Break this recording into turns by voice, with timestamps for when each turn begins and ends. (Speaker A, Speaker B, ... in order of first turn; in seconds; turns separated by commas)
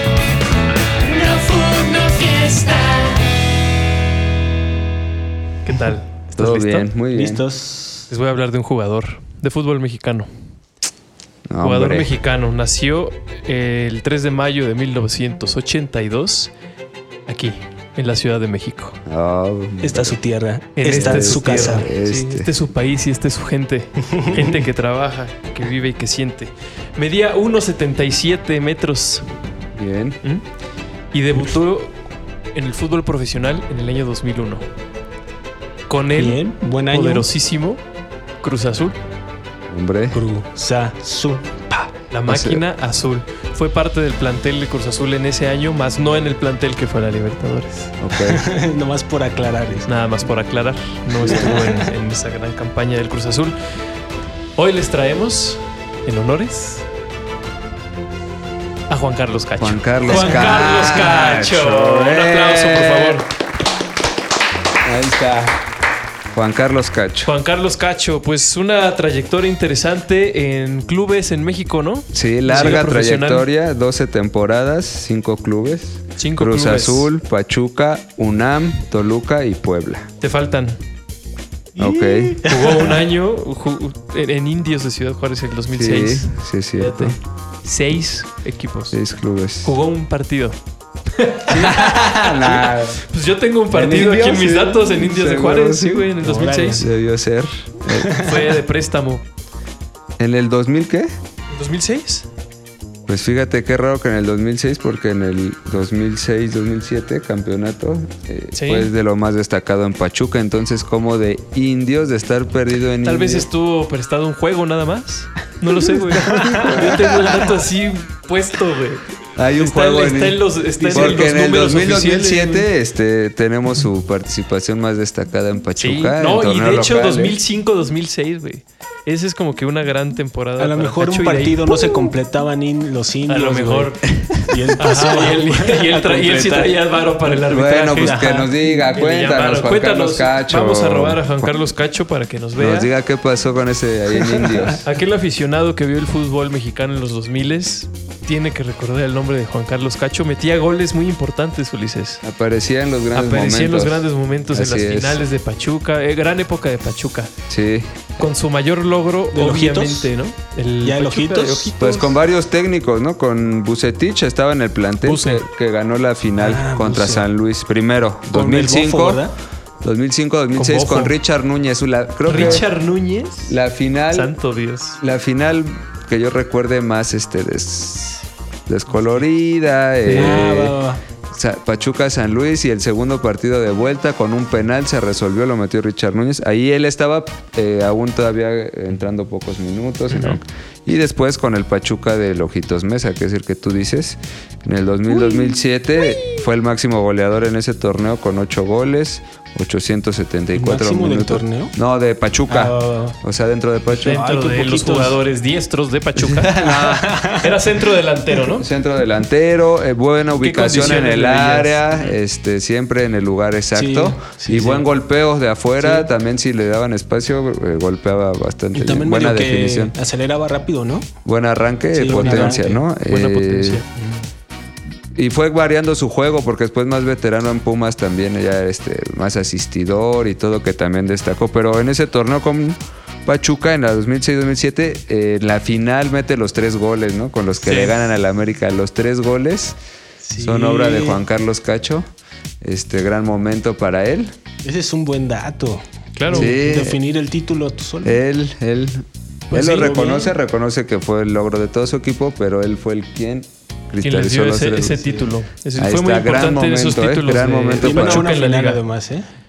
Speaker A: 1.0-3.2, Speaker A: 5.7-6.9, Speaker B: 6.4-7.4, Speaker C: 7.1-8.1, Speaker A: 8.1-10.3, Speaker B: 11.5-12.1, Speaker A: 11.6-16.5, Speaker A: 17.3-19.0, Speaker B: 19.1-20.2, Speaker C: 19.8-21.9, Speaker A: 20.8-29.3, Speaker B: 20.8-22.5, Speaker B: 29.8-30.2, Speaker A: 31.1-32.0, Speaker A: 32.5-34.7, Speaker A: 35.9-37.8, Speaker C: 36.2-37.3, Speaker A: 38.4-39.0, Speaker B: 39.7-40.2, Speaker C: 40.1-41.9, Speaker A: 42.1-47.9, Speaker B: 42.3-42.6, Speaker B: 48.0-48.4, Speaker C: 48.2-49.9, Speaker A: 49.9-53.6, Speaker C: 51.2-51.9, Speaker A: 54.5-56.8, Speaker A: 58.9-63.3, Speaker B: 59.6-63.2, Speaker C: 60.1-61.0, Speaker B: 64.8-65.6, Speaker B: 66.3-67.3, Speaker A: 67.2-73.5, Speaker B: 72.1-80.1, Speaker A: 76.2-77.1, Speaker A: 80.2-80.8, Speaker C: 81.8-82.9, Speaker B: 81.8-82.4, Speaker A: 82.4-89.0, Speaker B: 85.7-87.2, Speaker B: 88.9-89.8, Speaker A: 89.6-90.5, Speaker A: 91.1-96.9, Speaker C: 91.5-91.8, Speaker B: 91.7-93.0, Speaker B: 93.7-96.1, Speaker C: 96.2-96.9, Speaker B: 96.8-98.2, Speaker C: 98.0-98.4, Speaker A: 98.1-99.2, Speaker B: 100.2-101.1, Speaker A: 101.5-102.3, Speaker B: 103.1-113.5, Speaker A: 108.5-108.9, Speaker A: 113.0-122.7, Speaker B: 116.1-117.5, Speaker C: 116.3-116.8, Speaker B: 119.4-120.4, Speaker C: 120.8-121.3, Speaker B: 120.9-127.4, Speaker A: 125.8-131.9, Speaker C: 130.6-136.8, Speaker A: 133.3-134.2, Speaker A: 134.8-138.4, Speaker B: 137.5-141.5, Speaker C: 138.0-138.5, Speaker A: 138.9-142.9, Speaker B: 142.6-144.8, Speaker C: 144.2-144.6, Speaker A: 144.8-152.2, Speaker B: 152.2-155.2, Speaker A: 153.1-157.3, Speaker B: 157.5-158.1, Speaker A: 158.2-162.1, Speaker C: 159.3-160.1, Speaker C: 160.8-162.0, Speaker B: 161.8-169.2, Speaker A: 165.0-165.4, Speaker C: 166.4-167.3, Speaker C: 168.3-169.3, Speaker B: 169.8-172.7, Speaker A: 170.6-171.2, Speaker A: 172.2-173.6, Speaker B: 173.5-174.3, Speaker A: 174.1-175.0, Speaker B: 175.0-180.8, Speaker A: 180.0-180.6, Speaker C: 180.1-181.0, Speaker B: 181.3-204.2, Speaker A: 190.1-190.4, Speaker C: 200.6-201.7, Speaker C: 202.5-203.2, Speaker A: 203.9-206.6, Speaker C: 204.1-205.2, Speaker B: 206.2-207.2, Speaker C: 206.4-207.8, Speaker A: 207.4-208.7, Speaker B: 208.6-219.9, Speaker A: 210.4-212.1, Speaker C: 213.7-214.9, Speaker C: 215.8-216.1, Speaker C: 218.8-221.1, Speaker B: 221.2-223.8, Speaker C: 221.9-222.8, Speaker A: 222.1-223.9, Speaker C: 223.9-224.3, Speaker B: 225.2-239.8, Speaker A: 237.6-238.1, Speaker C: 240.2-241.2, Speaker B: 240.4-242.1, Speaker B: 242.6-244.3, Speaker C: 244.6-248.2, Speaker A: 246.2-246.6, Speaker B: 246.3-247.0, Speaker B: 248.0-255.0, Speaker A: 249.5-250.1, Speaker C: 249.5-250.3, Speaker A: 254.0-258.8, Speaker C: 255.0-255.3, Speaker B: 255.8-258.3, Speaker C: 257.8-259.2